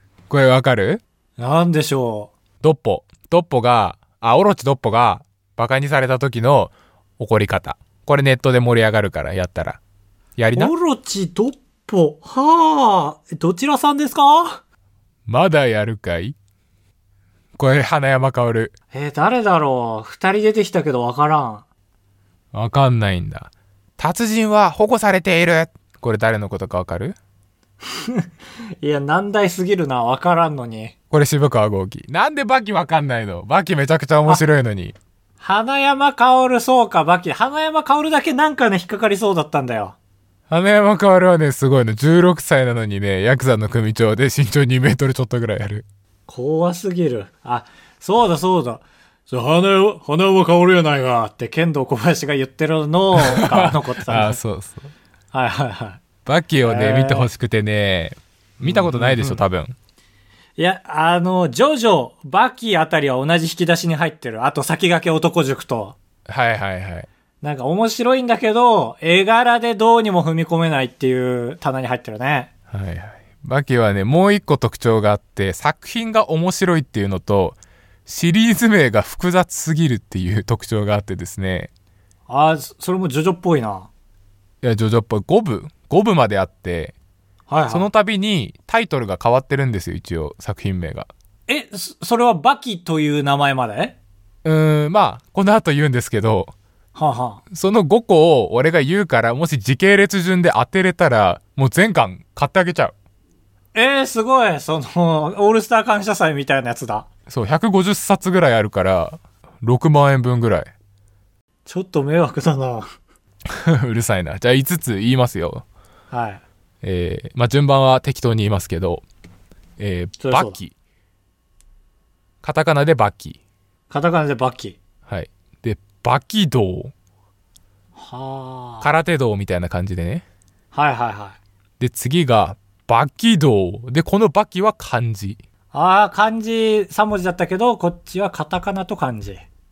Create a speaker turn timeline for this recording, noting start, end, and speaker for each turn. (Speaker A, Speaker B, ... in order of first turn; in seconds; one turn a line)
Speaker A: 0.3-1.0
Speaker B: 1.4-2.3
Speaker A: 2.6-9.8
Speaker A: 10.4-10.7
Speaker B: 10.5-14.6
Speaker A: 15.3-16.3
Speaker A: 17.6-18.7
Speaker B: 18.9-21.6
Speaker A: 22.5-27.1
Speaker B: 27.9-28.3
Speaker B: 28.8-30.9
Speaker A: 31.1-34.9
Speaker B: 35.4-40.0
Speaker A: 40.5-45.9
Speaker B: 46.3-54.4
Speaker A: 53.1-54.9
Speaker B: 55.3-56.0
Speaker A: 56.2-59.7
Speaker B: 56.6-57.3
Speaker B: 58.6-59.4
Speaker B: 60.6-66.0
Speaker A: 66.3-67.1
Speaker B: 67.4-72.5
Speaker A: 72.7-81.7
Speaker B: 82.3-83.9
Speaker A: 84.6-86.9
Speaker B: 87.5-87.9
Speaker A: 87.7-91.1
Speaker B: 91.5-94.0
Speaker A: 94.4-96.5
Speaker B: 96.9-97.4
Speaker A: 97.5-102.9
Speaker B: 103.7-107.1
Speaker A: 107.3-110.7
Speaker B: 111.7-112.9
Speaker A: 113.5-115.6
Speaker B: 116.1-116.4
Speaker A: 116.8-119.0
Speaker A: 119.8-120.7
Speaker B: 120.2-120.6
Speaker A: 122.4-123.4
Speaker B: 123.9-124.8
Speaker A: 125.0-126.9
Speaker B: 128.0-128.9
Speaker A: 128.8-130.2
Speaker B: 130.7-131.4
Speaker A: 131.8-135.4
Speaker B: 135.7-139.4